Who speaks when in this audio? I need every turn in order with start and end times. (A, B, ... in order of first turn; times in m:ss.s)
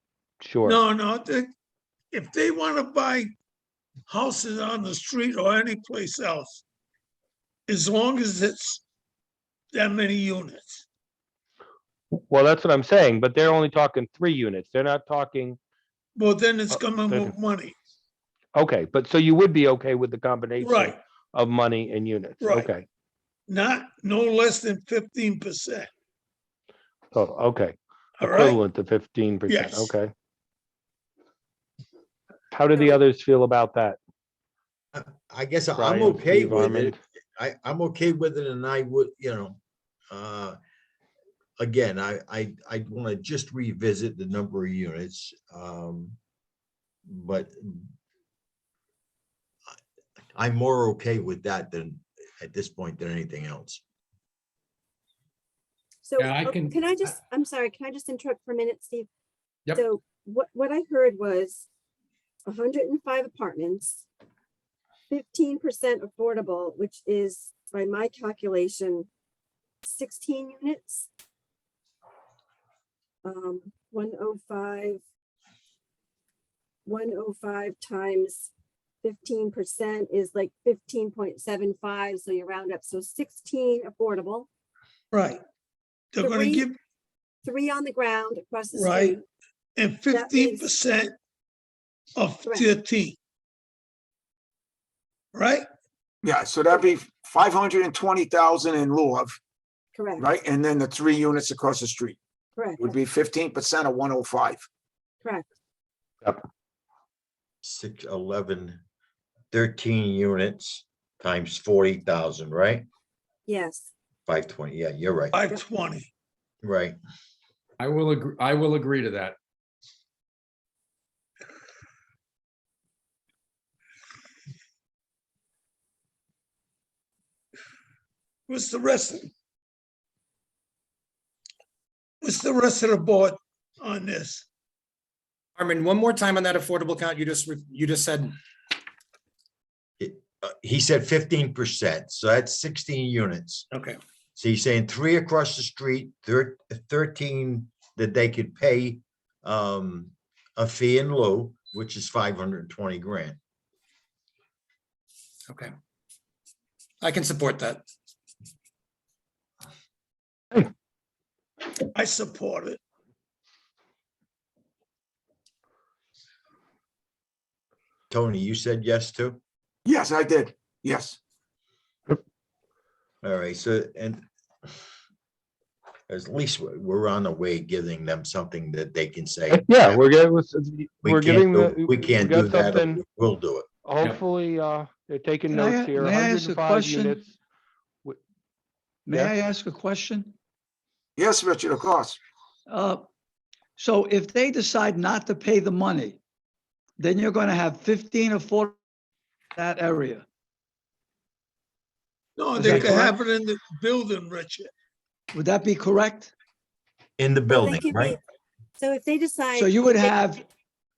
0:00.4-0:00.8 A
0:00.6-0:01.5 B
0:02.1-0:03.3 B
0:04.1-0:06.6 B
0:07.7-0:08.8 B
0:09.7-0:10.8 B
0:12.1-0:15.6 A
0:16.2-0:17.7 B
0:16.7-0:17.4 A
0:18.5-0:22.8 A
0:20.6-0:21.0 B
0:22.4-0:22.7 B
0:23.5-0:25.9 B
0:27.1-0:30.1 A
0:28.2-0:28.6 B
0:29.5-0:29.9 B
0:32.5-0:34.0 A
0:32.7-0:33.0 C
0:34.9-0:39.6 D
0:35.7-0:37.0 A
0:40.1-0:40.6 D
0:41.6-0:46.2 D
0:47.1-0:47.9 D
0:50.4-0:53.8 D
0:56.0-0:59.1 C
0:56.2-0:56.8 E
0:59.7-1:01.6 C
1:02.4-1:04.0 C
1:05.1-1:09.1 C
1:09.8-1:11.1 C
1:13.2-1:15.0 C
1:16.8-1:18.5 C
1:19.0-1:24.5 C
1:25.1-1:25.4 B
1:26.1-1:26.7 B
1:26.2-1:26.7 C
1:27.4-1:29.2 C
1:28.8-1:29.2 B
1:29.8-1:31.1 B
1:30.1-1:30.7 C
1:32.2-1:33.2 B
1:32.4-1:32.7 C
1:35.3-1:35.6 B
1:36.2-1:39.4 F
1:39.9-1:40.2 C
1:40.2-1:42.2 F
1:42.6-1:42.9 C
1:42.8-1:44.6 F
1:47.6-1:48.8 D
1:49.5-1:52.8 D
1:53.4-1:53.9 C
1:54.3-1:55.4 D
1:55.3-1:56.1 B
1:56.6-1:57.0 D
1:57.8-1:59.4 E
2:08.5-2:09.3 B
2:12.2-2:14.4 B
2:15.6-2:18.3 G
2:20.0-2:23.7 D
2:23.7-2:24.0 G
2:24.4-2:33.4 D
2:37.0-2:37.8 G
2:41.9-2:42.8 B
2:48.1-2:49.4 D
2:49.8-2:51.2 F
2:53.2-2:54.2 D
2:56.1-3:00.0 D
2:59.5-3:03.0 A
3:01.0-3:03.6 D
3:03.8-3:07.4 A
3:05.5-3:07.2 H
3:09.0-3:10.3 H
3:11.2-3:12.2 F
3:12.7-3:13.1 H
3:13.8-3:16.2 H
3:17.0-3:18.8 H
3:19.6-3:20.2 H
3:22.4-3:24.7 B
3:22.6-3:23.0 D
3:22.6-3:23.1 H
3:25.3-3:26.3 H
3:27.2-3:28.2 D
3:27.5-3:28.2 C
3:28.8-3:30.1 C
3:29.5-3:30.4 H